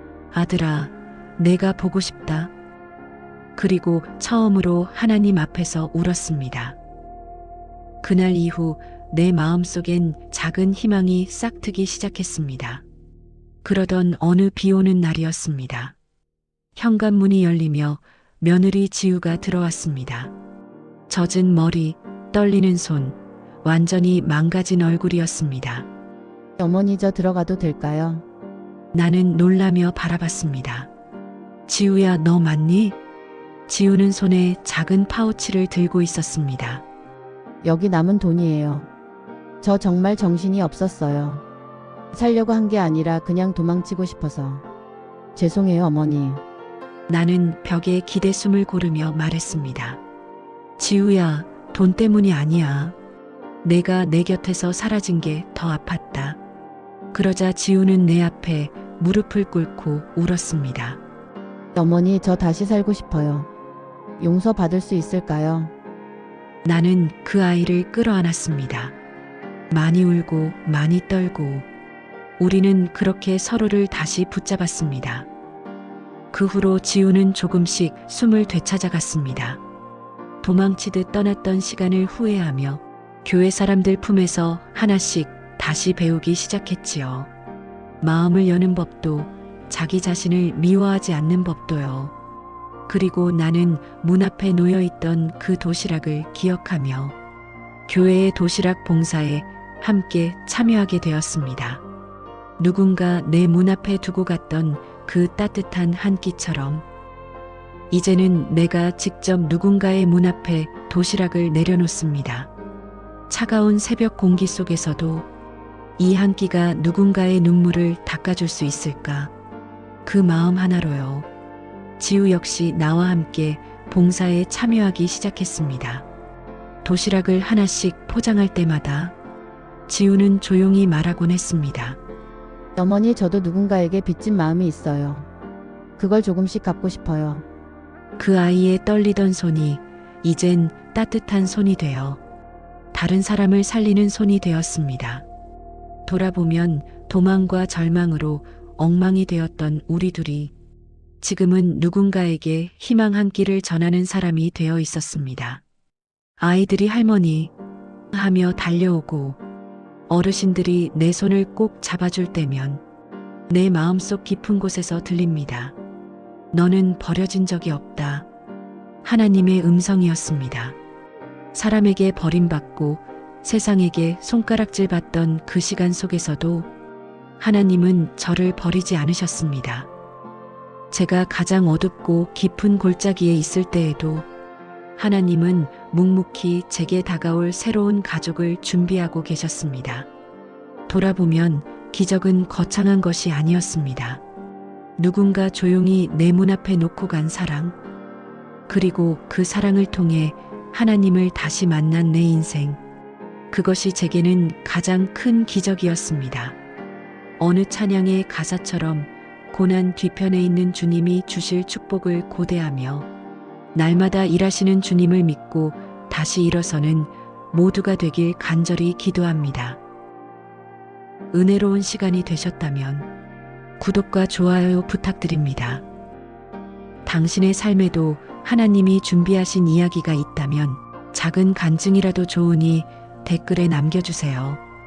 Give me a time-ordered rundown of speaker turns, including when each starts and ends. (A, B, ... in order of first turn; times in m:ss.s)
0:00.3-0:02.5 A
0:03.6-0:06.8 A
0:08.0-0:12.8 A
0:13.6-0:16.0 A
0:16.8-0:20.3 A
0:21.1-0:25.9 A
0:26.6-0:28.2 B
0:28.9-0:30.9 A
0:31.7-0:33.0 A
0:33.7-0:36.8 A
0:37.6-0:38.9 B
0:39.6-0:41.4 B
0:42.1-0:44.6 B
0:45.4-0:46.4 B
0:47.1-0:50.0 A
0:50.8-0:53.0 A
0:53.6-0:56.4 A
0:57.1-1:01.0 A
1:01.7-1:03.5 B
1:04.2-1:05.7 B
1:06.6-1:08.9 A
1:09.7-1:11.7 A
1:12.4-1:15.3 A
1:16.3-1:19.6 A
1:20.4-1:27.3 A
1:28.0-1:32.1 A
1:32.9-1:37.2 A
1:37.9-1:41.8 A
1:42.6-1:46.8 A
1:47.9-1:52.5 A
1:53.3-1:55.3 A
1:56.0-1:59.3 A
2:00.0-2:01.3 A
2:02.0-2:06.1 A
2:06.8-2:09.2 A
2:09.9-2:12.0 A
2:12.8-2:15.3 B
2:16.0-2:17.4 B
2:18.2-2:22.2 A
2:22.9-2:25.3 A
2:26.0-2:30.5 A
2:31.2-2:35.6 A
2:36.4-2:37.5 A
2:38.1-2:39.4 A
2:40.1-2:42.8 A
2:43.5-2:45.8 A
2:46.5-2:48.3 A
2:49.0-2:50.8 A
2:51.5-2:56.7 A
2:57.4-2:59.9 A
3:00.9-3:04.3 A
3:05.0-3:10.1 A
3:10.9-3:14.2 A
3:15.0-3:17.7 A
3:18.7-3:22.8 A
3:23.5-3:26.6 A
3:27.4-3:33.1 A
3:33.7-3:39.8 A
3:41.3-3:43.1 A
3:43.8-3:45.8 A
3:47.0-3:54.6 A